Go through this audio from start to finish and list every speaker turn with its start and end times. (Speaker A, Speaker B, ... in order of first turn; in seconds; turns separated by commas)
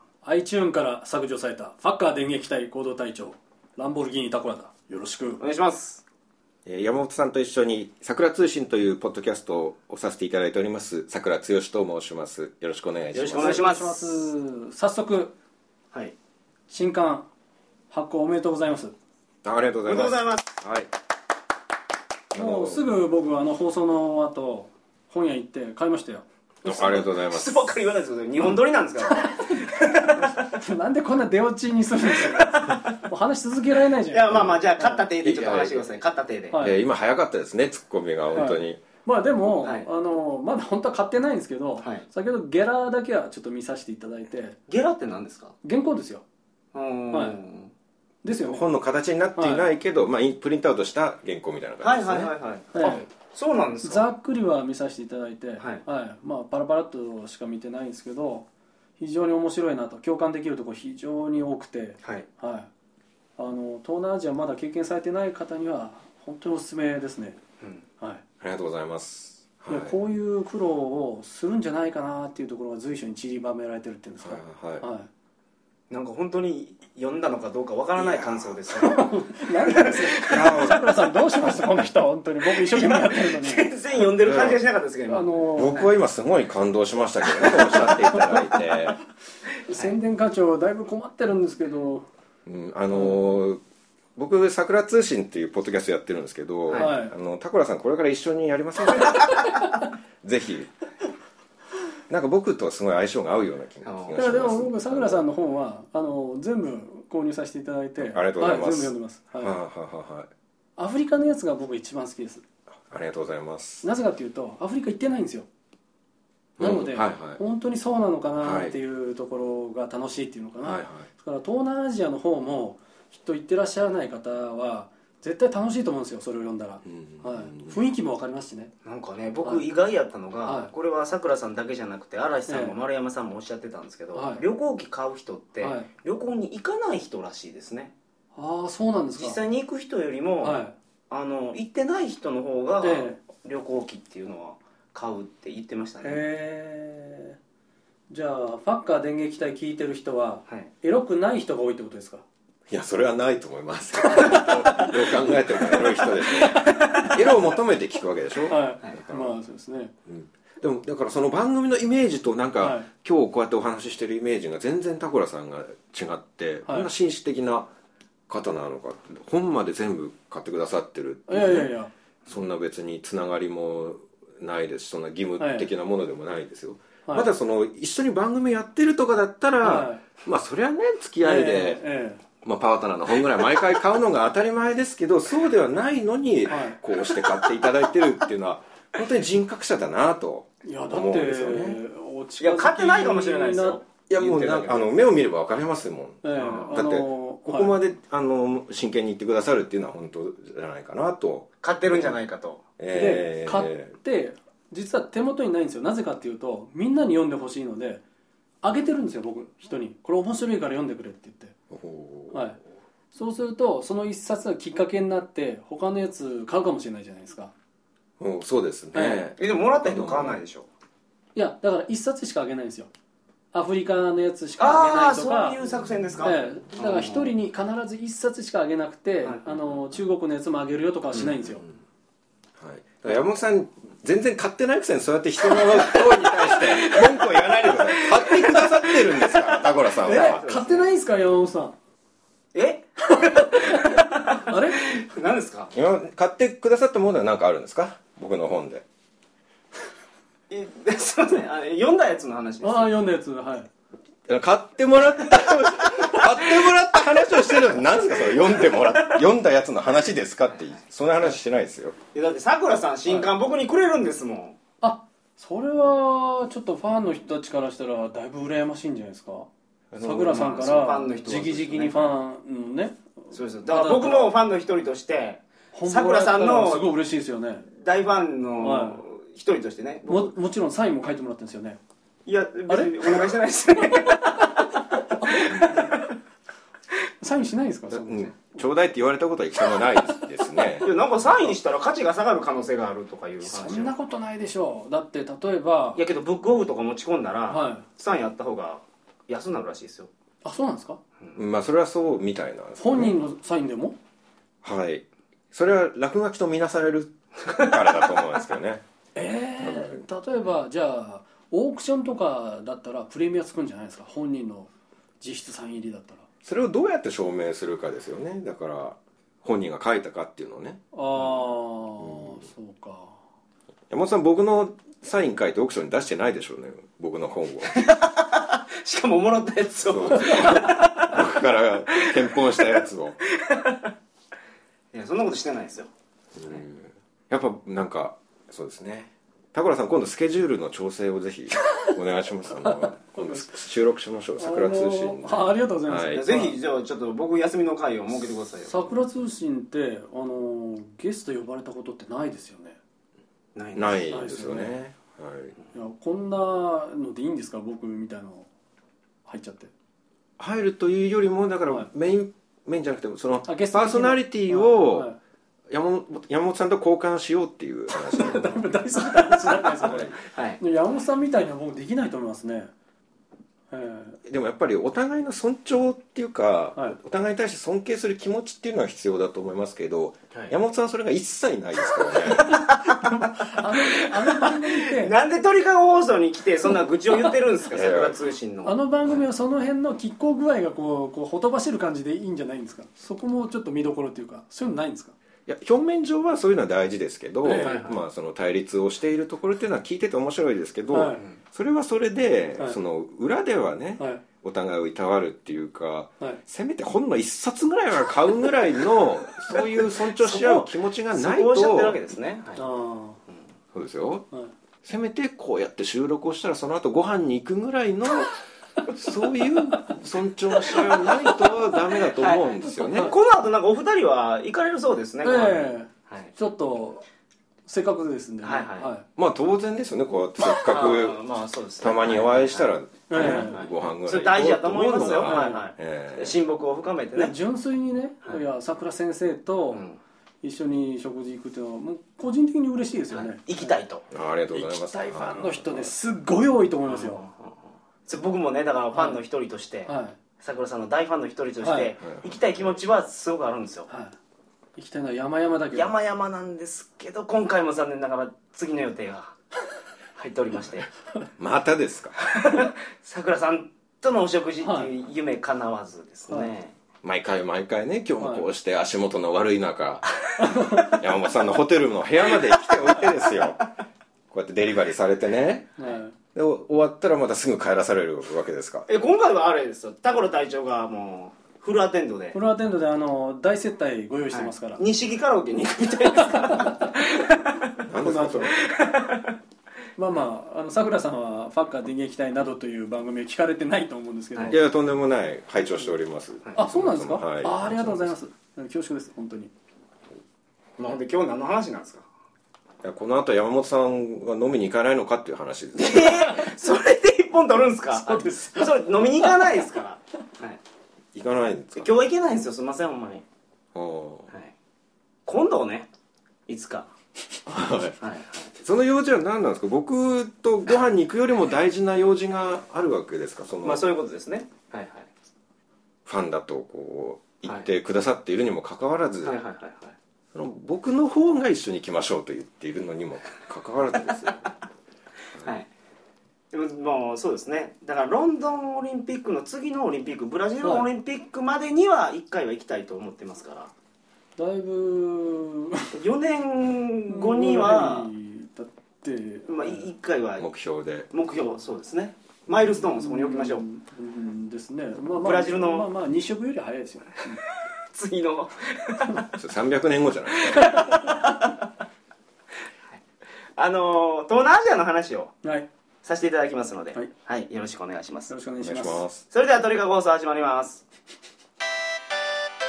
Speaker A: 0.2-5.4, Speaker B: 5.4-6.0, Speaker C: 6.6-13.8, Speaker B: 13.1-14.0, Speaker A: 13.3-15.3, Speaker A: 16.7-17.3, Speaker A: 17.9-18.9, Speaker C: 19.4-20.9, Speaker B: 19.9-20.4, Speaker C: 22.3-22.8, Speaker A: 22.3-26.2, Speaker B: 26.6-30.6, Speaker C: 26.6-27.7, Speaker A: 29.2-29.6, Speaker A: 30.4-35.0, Speaker B: 32.2-32.7, Speaker B: 34.1-36.5, Speaker C: 35.2-35.8, Speaker A: 36.5-36.8, Speaker C: 36.6-38.8, Speaker A: 38.3-44.6, Speaker B: 39.6-39.9, Speaker B: 41.8-42.0, Speaker B: 44.7-45.5, Speaker A: 45.6-46.2, Speaker B: 46.7-47.7, Speaker A: 47.1-47.4, Speaker A: 48.2-48.7, Speaker C: 48.3-52.3, Speaker A: 49.4-49.7, Speaker B: 51.8-54.1, Speaker A: 52.7-53.0, Speaker A: 53.8-58.5, Speaker A: 59.0-62.7, Speaker A: 63.4-67.4, Speaker C: 68.4-70.0, Speaker A: 69.7-75.1, Speaker C: 74.2-74.8, Speaker B: 75.9-80.7, Speaker A: 78.2-83.7, Speaker C: 80.3-80.9, Speaker B: 82.4-85.3, Speaker C: 84.2-84.6, Speaker A: 85.1-85.9, Speaker C: 85.5-89.0, Speaker A: 87.6-88.5, Speaker A: 89.7-92.0, Speaker B: 89.7-90.0, Speaker C: 92.5-93.6, Speaker C: 94.2-99.5, Speaker B: 96.7-96.9, Speaker A: 96.7-97.1, Speaker C: 100.2-100.7, Speaker C: 102.1-105.2, Speaker B: 103.8-104.2, Speaker A: 104.1-109.6, Speaker C: 108.0-110.3, Speaker A: 110.8-112.4, Speaker C: 112.9-113.9, Speaker A: 113.8-115.5, Speaker C: 116.6-117.4, Speaker A: 116.6-128.7, Speaker C: 118.4-118.8, Speaker C: 120.6-121.1, Speaker C: 126.8-127.8, Speaker B: 128.8-137.9, Speaker A: 130.4-130.7, Speaker A: 132.5-132.8, Speaker A: 134.1-134.4, Speaker A: 135.6-135.9, Speaker A: 138.3-139.4, Speaker B: 139.2-146.2, Speaker A: 140.4-140.7, Speaker A: 142.8-143.2, Speaker A: 146.0-147.4, Speaker A: 148.1-152.2, Speaker C: 152.7-159.3, Speaker A: 154.1-155.0, Speaker B: 156.6-157.1, Speaker A: 158.5-159.9, Speaker C: 160.1-167.7, Speaker A: 162.6-162.9, Speaker C: 168.3-171.7, Speaker A: 171.3-171.9, Speaker C: 172.2-181.8, Speaker A: 175.4-175.7, Speaker A: 179.6-180.0, Speaker A: 181.2-182.2, Speaker C: 182.4-191.8, Speaker A: 186.5-186.8, Speaker A: 190.6-193.8, Speaker B: 192.4-194.9, Speaker C: 194.1-202.1, Speaker A: 196.2-197.7, Speaker B: 196.4-196.8, Speaker B: 201.6-202.6, Speaker C: 202.8-203.9, Speaker A: 202.9-208.0, Speaker A: 208.6-211.5, Speaker C: 211.7-212.4, Speaker A: 212.3-212.6, Speaker A: 213.1-217.5, Speaker C: 218.2-220.4, Speaker A: 218.9-219.3, Speaker B: 219.4-220.7, Speaker A: 221.3-222.9, Speaker A: 223.5-225.6, Speaker B: 224.6-227.3, Speaker A: 226.2-231.6, Speaker B: 229.2-229.8, Speaker C: 232.6-240.4, Speaker B: 235.5-240.8, Speaker A: 240.0-241.7, Speaker B: 242.5-245.7, Speaker A: 243.2-244.9, Speaker C: 245.7-248.8, Speaker B: 250.5-252.9, Speaker A: 252.6-253.7, Speaker C: 254.3-261.9, Speaker B: 257.4-259.2, Speaker B: 262.1-264.6, Speaker A: 264.8-269.5, Speaker C: 269.9-270.4, Speaker A: 270.0-274.3, Speaker B: 270.0-272.1, Speaker B: 273.3-276.9, Speaker A: 275.7-277.7, Speaker B: 277.8-280.3, Speaker A: 278.6-279.0, Speaker A: 280.1-281.8, Speaker B: 282.2-286.1, Speaker A: 282.7-283.3, Speaker A: 285.2-285.9, Speaker A: 287.2-288.6, Speaker C: 287.9-290.9, Speaker B: 290.8-293.9, Speaker A: 293.4-296.0, Speaker B: 295.9-300.1, Speaker A: 297.5-297.8, Speaker A: 300.4-301.0, Speaker C: 301.4-303.1, Speaker A: 302.8-304.0, Speaker C: 304.6-308.8, Speaker A: 309.1-314.7, Speaker C: 309.6-310.1, Speaker A: 315.2-316.2, Speaker C: 316.4-320.8, Speaker A: 320.9-323.2, Speaker C: 322.0-322.4, Speaker C: 323.9-327.8, Speaker B: 327.7-331.2, Speaker C: 329.8-333.2, Speaker B: 333.4-333.9, Speaker B: 334.9-335.9, Speaker C: 336.3-346.3, Speaker A: 342.7-343.6, Speaker A: 344.4-346.6, Speaker B: 346.1-348.9, Speaker A: 348.7-352.8, Speaker B: 353.5-354.1, Speaker C: 353.8-355.5, Speaker A: 354.1-354.8, Speaker A: 355.7-358.5, Speaker A: 359.2-359.7, Speaker C: 360.4-365.1, Speaker A: 363.5-365.2, Speaker C: 365.7-368.7, Speaker A: 368.0-372.7, Speaker B: 369.5-370.6, Speaker C: 369.8-370.1, Speaker A: 373.7-374.2, Speaker C: 374.2-382.5, Speaker B: 382.1-388.8, Speaker A: 382.9-385.1, Speaker C: 387.7-388.2, Speaker A: 388.6-395.1, Speaker C: 395.4-412.0, Speaker A: 397.4-397.8, Speaker B: 397.6-398.0, Speaker A: 400.9-401.2, Speaker B: 410.1-412.6, Speaker A: 412.6-413.2, Speaker C: 413.7-414.2, Speaker C: 414.8-418.3, Speaker C: 418.9-423.1, Speaker B: 422.1-426.3, Speaker A: 422.8-423.1, Speaker A: 425.2-427.0, Speaker A: 427.6-429.1, Speaker B: 428.4-428.9, Speaker C: 429.2-431.2, Speaker B: 430.6-437.3, Speaker C: 431.8-436.4, Speaker A: 433.1-433.7, Speaker A: 435.0-435.6, Speaker A: 437.1-439.8, Speaker B: 439.7-440.0, Speaker A: 440.4-443.7, Speaker B: 443.1-444.1, Speaker C: 444.1-445.9, Speaker A: 444.5-447.2, Speaker B: 446.9-447.5, Speaker B: 448.1-453.9, Speaker A: 448.9-449.2, Speaker A: 449.9-450.2, Speaker A: 451.6-451.9, Speaker C: 452.0-452.6, Speaker A: 453.9-454.1, Speaker A: 454.8-455.9, Speaker B: 455.7-459.3, Speaker B: 460.1-460.9, Speaker C: 461.4-462.2, Speaker B: 462.2-466.7, Speaker A: 464.6-464.9, Speaker C: 467.0-470.1, Speaker A: 468.2-468.5, Speaker A: 470.4-471.0, Speaker C: 470.8-473.7, Speaker C: 474.3-475.7, Speaker A: 475.8-476.1, Speaker C: 476.3-478.9, Speaker B: 478.9-482.4, Speaker A: 482.3-484.8, Speaker B: 484.3-487.7, Speaker A: 486.3-486.7, Speaker C: 487.9-488.5, Speaker A: 487.9-488.6, Speaker B: 488.5-489.3, Speaker A: 490.0-494.6, Speaker C: 494.5-498.2, Speaker A: 496.6-499.5, Speaker B: 500.8-502.0, Speaker C: 502.8-506.4, Speaker B: 505.7-510.6, Speaker A: 508.1-508.8, Speaker C: 511.1-511.9, Speaker B: 511.8-513.2, Speaker C: 513.7-514.3, Speaker B: 515.2-515.9, Speaker B: 516.5-516.9, Speaker C: 517.5-518.0, Speaker B: 518.0-518.5, Speaker C: 518.5-523.9, Speaker B: 523.6-525.1, Speaker C: 526.0-529.4, Speaker B: 529.2-530.0, Speaker C: 530.3-534.5, Speaker B: 535.4-535.7, Speaker B: 536.5-543.7, Speaker A: 544.4-545.9, Speaker B: 545.9-548.1, Speaker A: 547.1-549.9, Speaker B: 549.5-550.5, Speaker C: 550.4-551.1, Speaker B: 551.1-553.6, Speaker A: 552.7-557.4, Speaker B: 555.2-555.9, Speaker B: 557.9-559.3, Speaker C: 559.4-560.7, Speaker B: 560.4-561.5, Speaker B: 563.5-565.3, Speaker B: 566.0-568.3, Speaker A: 568.3-569.0, Speaker C: 568.6-569.2, Speaker B: 569.3-570.8